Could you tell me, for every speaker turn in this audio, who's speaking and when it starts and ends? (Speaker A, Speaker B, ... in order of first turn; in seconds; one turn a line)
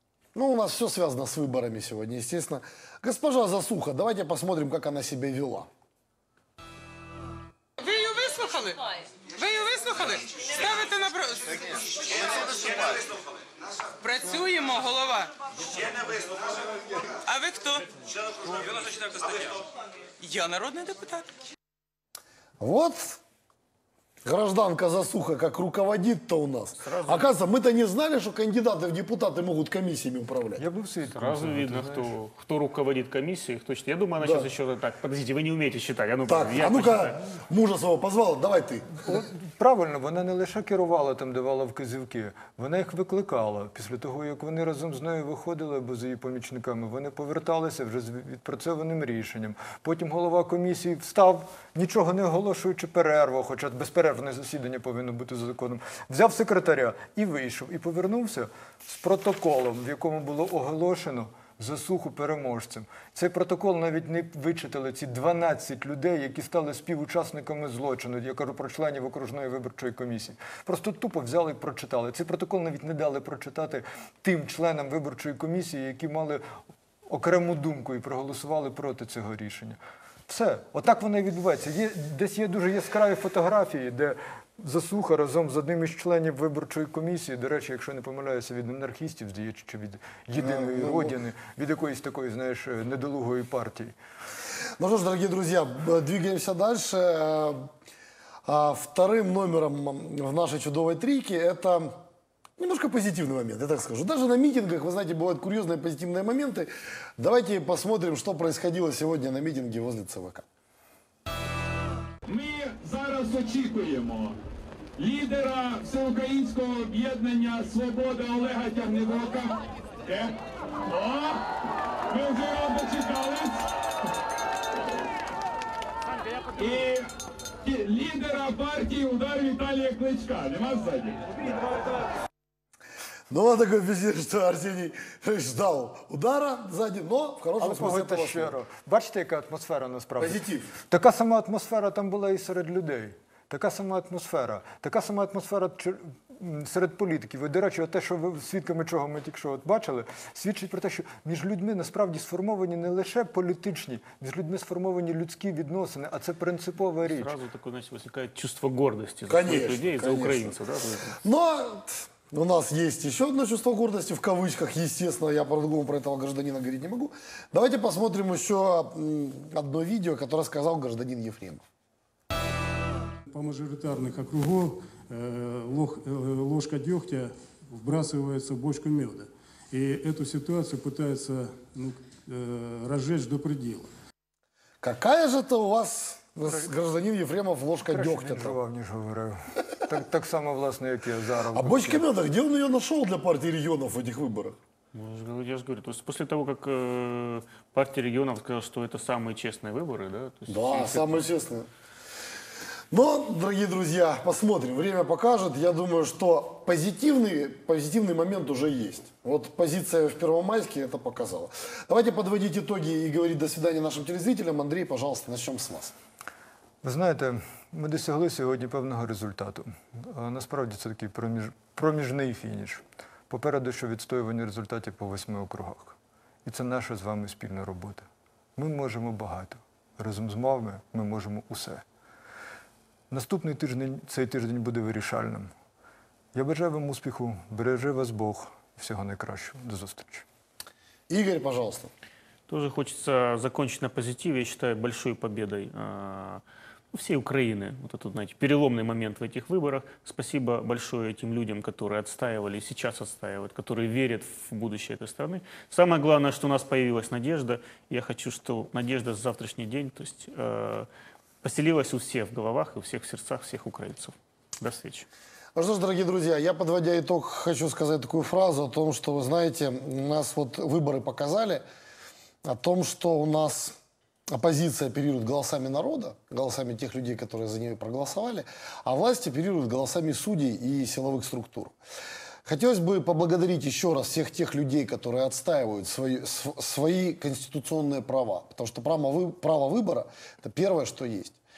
Speaker A: 0.3-5.7
Speaker B: 7.8-8.8
Speaker B: 9.3-13.0
Speaker B: 14.0-15.3
Speaker B: 17.0-17.9
Speaker B: 18.4-19.6
Speaker B: 20.2-21.3
Speaker A: 22.6-23.2
Speaker A: 24.2-30.6
Speaker C: 26.8-27.3
Speaker D: 30.6-32.1
Speaker C: 31.1-37.2
Speaker A: 34.2-34.5
Speaker A: 36.3-38.9
Speaker D: 39.0-76.4
Speaker D: 77.1-93.9
Speaker A: 90.4-91.2
Speaker A: 94.8-97.7
Speaker A: 98.5-101.9
Speaker A: 102.6-110.4
Speaker E: 112.2-114.4
Speaker E: 115.0-121.5
Speaker E: 122.1-123.7
Speaker E: 126.6-127.1
Speaker E: 127.6-131.7
Speaker A: 133.3-138.5
Speaker D: 137.6-157.3
Speaker A: 140.2-140.7
Speaker C: 157.1-161.2
Speaker A: 159.3-160.6
Speaker A: 161.2-171.6
Speaker F: 173.3-183.9
Speaker A: 184.8-188.6
Speaker D: 187.9-192.1
Speaker A: 191.5-194.5
Speaker C: 194.9-201.2
Speaker A: 200.5-201.7
Speaker A: 202.9-215.9
Speaker D: 216.8-231.8
Speaker D: 233.1-235.5
Speaker D: 236.3-240.2
Speaker A: 241.1-241.9
Speaker C: 242.5-246.4
Speaker C: 246.9-260.9
Speaker C: 261.4-265.1
Speaker A: 265.5-271.6
Speaker A: 272.4-273.7
Speaker A: 274.3-281.7
Speaker A: 282.4-291.4